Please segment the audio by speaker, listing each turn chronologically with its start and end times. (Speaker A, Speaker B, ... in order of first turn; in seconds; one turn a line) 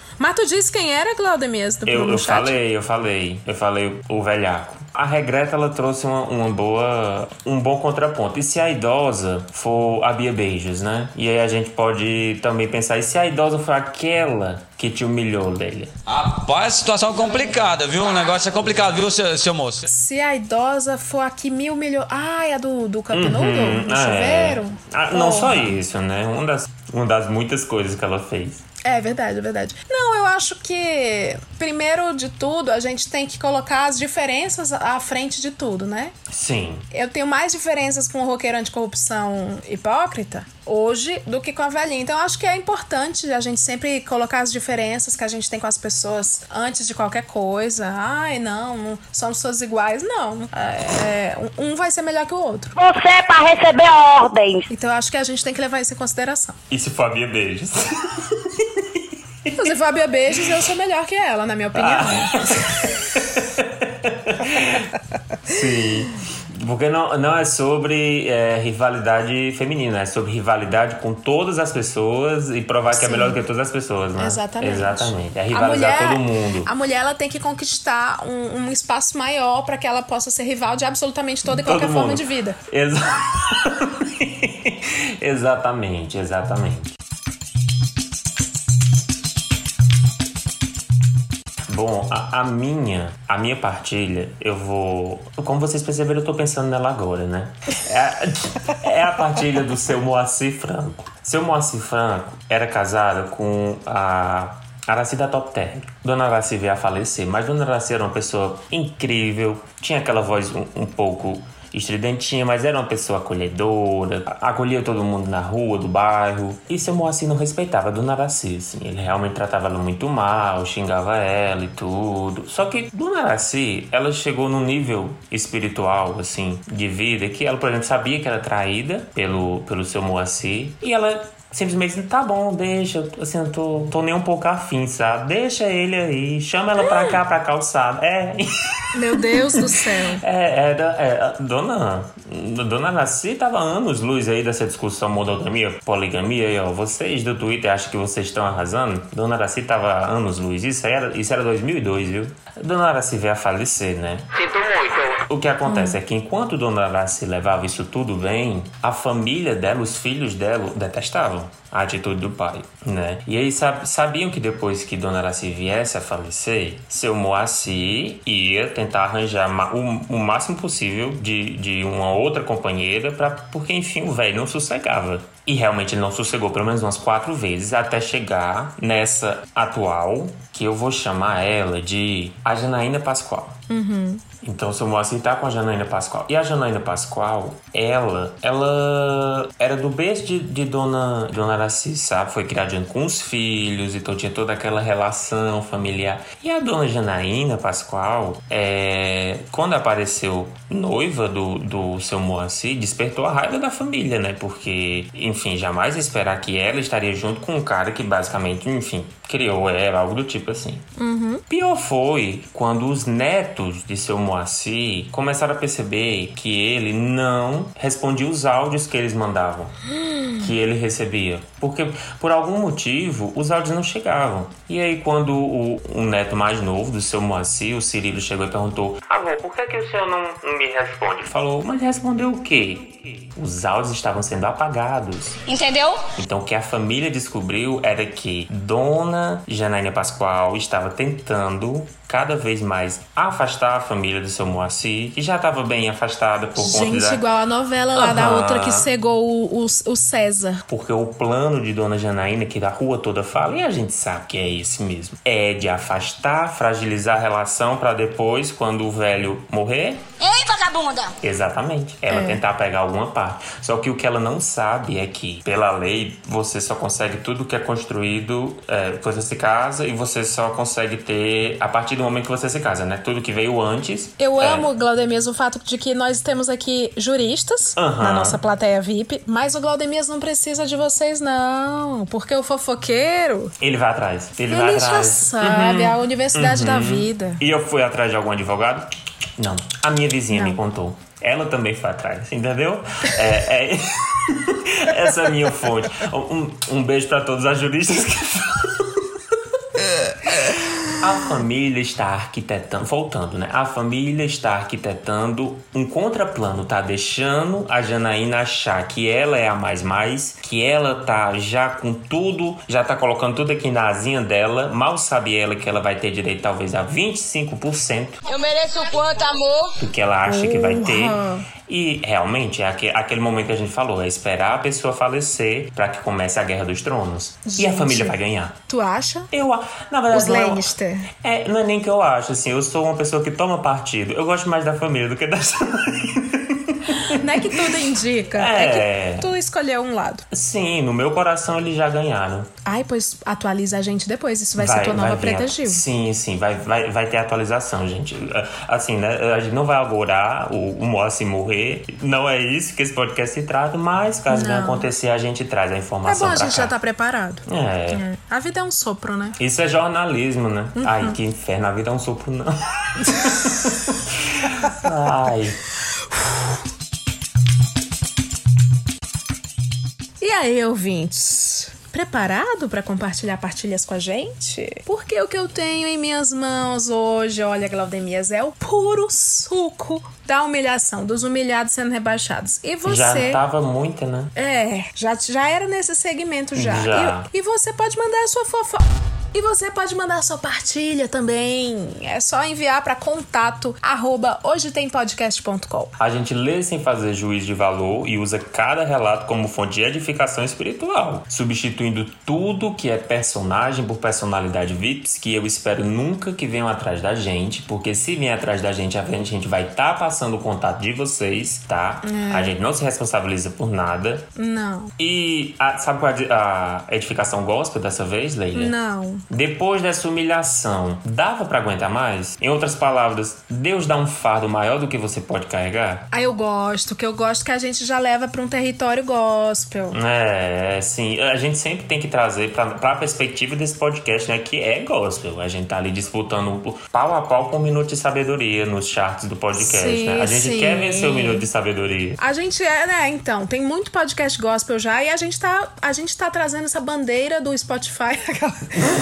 Speaker A: 0.2-2.6
Speaker B: 1.9-15.9
Speaker C: 16.1-19.8
Speaker A: 19.8-25.8
Speaker B: 23.1-28.6
Speaker A: 28.8-36.1
Speaker B: 36.3-36.8
Speaker A: 36.9-52.7
Speaker D: 52.8-54.7
Speaker A: 54.7-56.6
Speaker B: 56.7-59.0
Speaker A: 59.5-62.5
Speaker B: 61.8-64.9
Speaker B: 65.5-76.7
Speaker A: 72.9-73.4
Speaker A: 74.2-82.6
Speaker B: 81.4-86.9
Speaker B: 91.7-138.5
Speaker A: 136.8-137.1
Speaker A: 138.9-140.2
Speaker B: 139.1-183.6
Speaker A: 155.7-156.0
Speaker A: 183.7-184.2
Speaker B: 184.4-210.8
Speaker A: 211.0-211.4
Speaker B: 211.5-219.7
Speaker A: 219.9-220.4
Speaker B: 220.4-235.4
Speaker E: 235.5-235.9
Speaker B: 236.2-247.2
Speaker A: 246.6-250.6
Speaker B: 247.9-248.9
Speaker B: 250.7-260.1
Speaker D: 260.3-260.8
Speaker E: 260.6-261.0
Speaker B: 261.2-274.7
Speaker A: 262.1-262.4
Speaker A: 274.2-283.5
Speaker B: 277.8-278.4
Speaker B: 283.6-299.1
Speaker A: 284.5-287.4
Speaker A: 290.3-290.6
Speaker B: 300.9-318.2
Speaker D: 318.3-319.5
Speaker E: 318.4-319.4
Speaker B: 319.8-328.5
Speaker A: 320.3-321.4
Speaker A: 327.4-328.1
Speaker A: 328.7-329.3
Speaker B: 329.3-337.4
Speaker A: 330.1-331.1
Speaker A: 337.1-340.2
Speaker B: 338.3-339.3
Speaker B: 340.3-342.5
Speaker A: 342.6-345.8
Speaker B: 344.6-356.7
Speaker A: 354.3-354.9
Speaker A: 356.0-359.4
Speaker B: 357.5-358.0
Speaker B: 359.4-365.6
Speaker A: 360.8-361.1
Speaker A: 370.2-383.4
Speaker B: 382.8-384.3
Speaker A: 384.3-395.9
Speaker B: 386.5-387.3
Speaker B: 396.0-414.3
Speaker A: 412.0-412.6
Speaker A: 414.4-414.9
Speaker B: 415.0-418.7
Speaker A: 418.5-419.2
Speaker B: 419.3-426.1
Speaker A: 426.1-430.0
Speaker B: 429.9-442.2
Speaker A: 439.6-441.4
Speaker A: 442.2-448.8